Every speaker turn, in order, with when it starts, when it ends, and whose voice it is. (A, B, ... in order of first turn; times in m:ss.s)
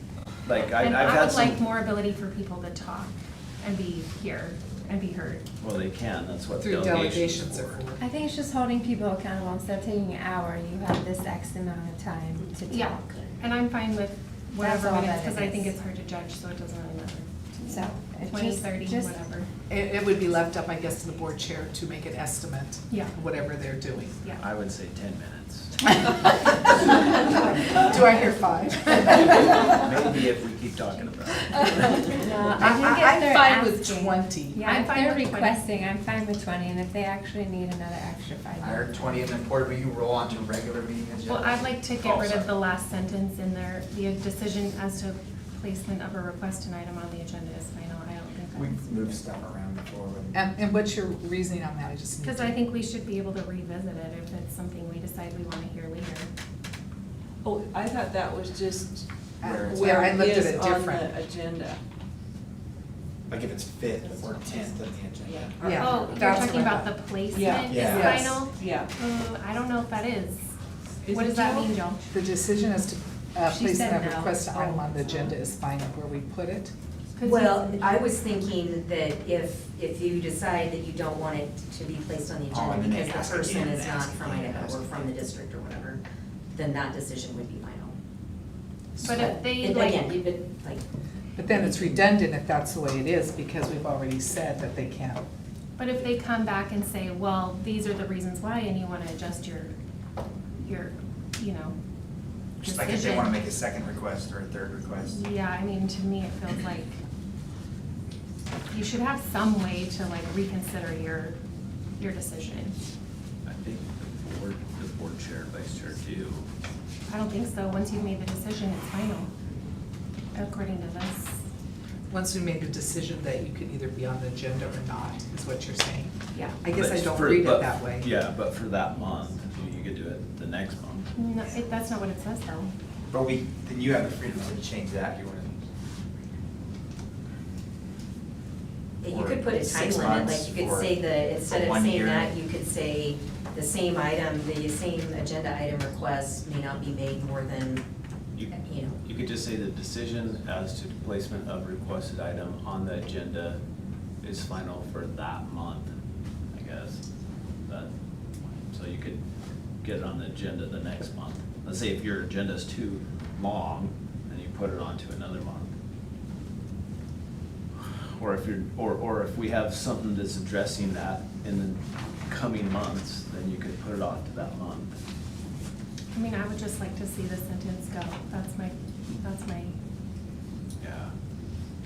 0:00.4-0:01.6 A
0:00.6-0:05.4 B
0:05.6-0:07.8 A
0:06.5-0:08.0 C
0:08.0-0:13.3 D
0:12.7-0:19.5 B
0:14.6-0:15.7 D
0:17.6-0:19.2 D
0:19.7-0:24.1 C
0:22.9-0:23.1 B
0:24.4-0:26.3 A
0:27.3-0:29.8 C
0:29.1-0:32.2 A
0:32.2-0:39.4 D
0:32.6-0:34.6 C
0:34.6-0:35.6 B
0:38.6-0:41.7 E
0:41.3-0:49.2 B
0:42.0-0:42.5 A
0:48.5-0:50.4 E
0:50.3-0:52.6 C
0:52.2-0:56.3 B
0:57.4-0:59.0 F
0:59.4-1:00.3 E
0:59.4-1:01.1 C
0:59.7-1:01.8 F
1:03.3-1:05.8 E
1:04.1-1:04.6 F
1:05.2-1:06.3 F
1:05.6-1:06.9 C
1:05.7-1:10.5 B
1:07.3-1:08.9 F
1:07.7-1:08.4 E
1:07.8-1:08.4 C
1:11.0-1:11.8 F
1:11.1-1:12.1 B
1:12.1-1:16.7 C
1:13.4-1:14.9 D
1:14.9-1:15.3 F
1:17.2-1:18.0 B
1:17.2-1:26.0 G
1:22.5-1:25.2 E
1:26.5-1:28.0 G
1:28.9-1:30.8 G
1:29.0-1:30.2 B
1:31.4-1:35.2 C
1:31.4-1:32.2 G
1:35.8-1:39.7 B
1:40.6-1:41.7 B
1:42.6-1:45.2 E
1:42.6-1:43.4 B
1:45.0-1:47.0 B
1:48.7-1:51.4 B
1:52.0-1:52.8 B
1:53.4-1:56.5 A
1:57.1-1:59.3 B
2:00.3-2:01.4 B
2:02.1-2:08.1 C
2:06.3-2:06.6 B
2:06.7-2:11.1 A
2:11.1-2:12.7 B
2:13.1-2:15.6 E
2:19.0-2:27.8 G
2:19.1-2:22.4 E
2:28.3-2:33.6 A
2:28.6-2:29.0 G
2:34.2-2:35.9 A
2:36.5-2:37.0 A
2:37.6-2:39.2 A
2:39.8-2:45.7 A
2:47.7-2:55.0 A
2:56.1-2:59.7 B
3:00.8-3:01.1 A